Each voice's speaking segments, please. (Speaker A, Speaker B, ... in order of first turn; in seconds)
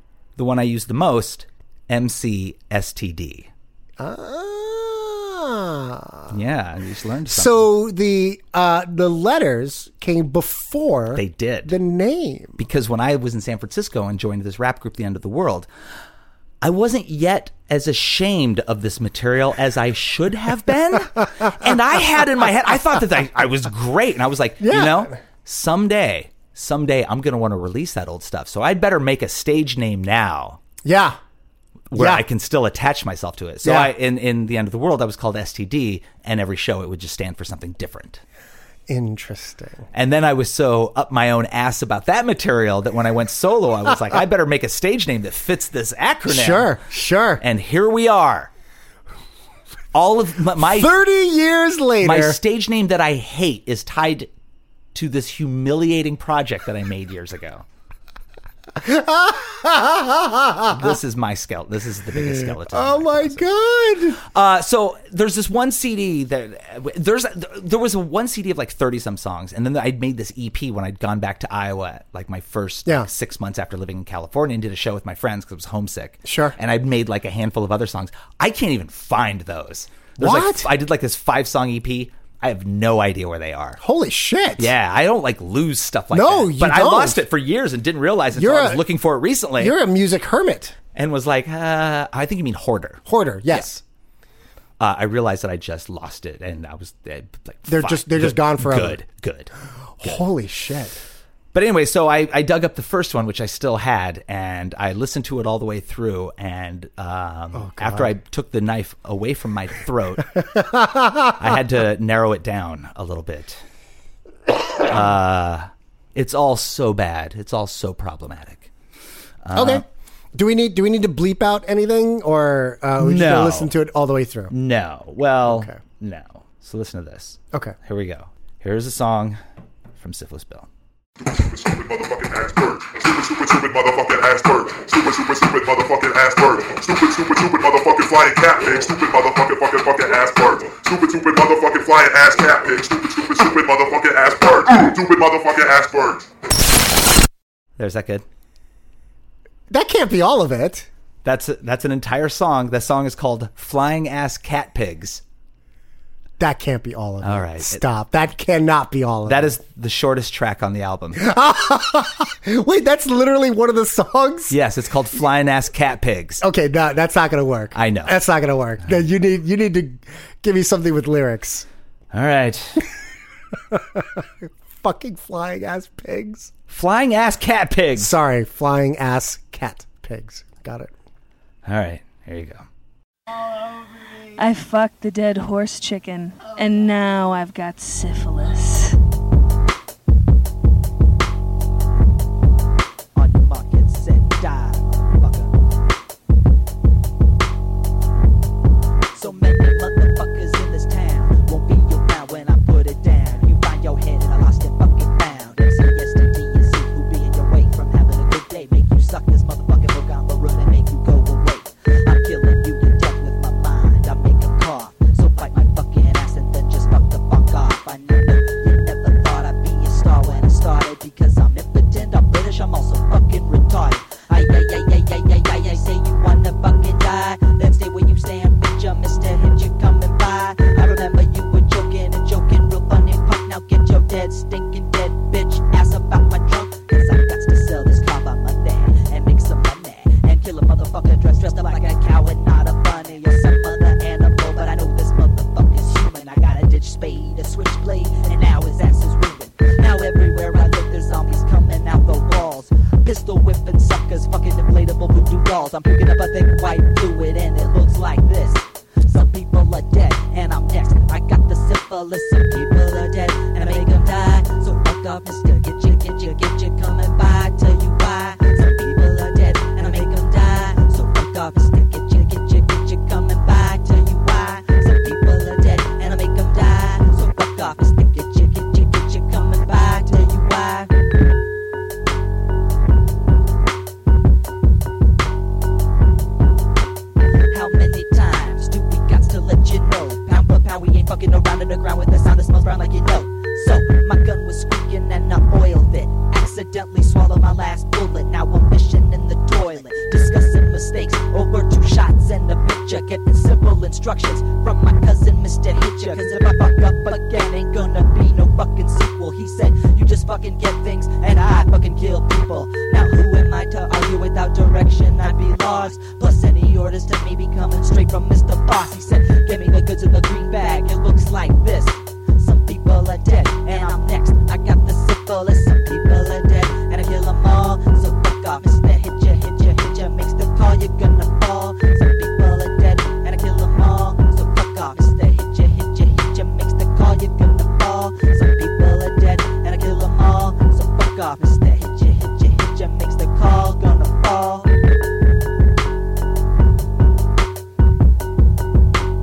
Speaker A: 0.4-3.5, 6.3-7.7, 11.1-11.7, 12.6-15.7, 16.6-30.6, 31.9-38.2, 39.9-46.7, 47.4-48.5, 49.9-50.9, 52.0-54.3, 54.9-57.6, 60.7-63.4, 64.2-83.8, 84.6-89.8, 90.9-93.7, 94.8-99.5, 101.5-110.3, 111.4-113.6, 114.8-118.7, 119.4-119.8, 123.0-123.7, 124.5-129.4, 130.0-130.7, 147.8-148.2, 151.2-155.2, 157.2-157.8, 159.2-161.3, 164.5-166.4, 167.7-168.2, 172.1-172.8, 176.7-178.1, 181.6-182.6
Speaker B: 4.0-6.3, 7.3-12.6, 24.6-25.1, 30.8-31.2, 31.9-32.2, 33.6-33.9, 38.9-39.9, 46.3-47.4, 50.6-52.4, 58.8-60.9, 62.2-64.2, 76.2-76.5, 80.2-80.7, 83.8-84.7, 86.1-87.2, 88.3-88.8, 89.6-90.8, 93.1-93.8, 97.7-99.0, 100.0-101.0, 107.5-108.1, 110.5-111.4, 119.5-124.5, 125.5-125.8, 149.7-150.9, 156.4-159.5, 161.2-164.6, 166.4-171.7, 173.7-176.5, 178.0-180.9
Speaker C: 131.2-146.3
Speaker D: 184.3-189.0
Speaker E: 193.1-195.5, 199.1-280.9, 287.5-344.7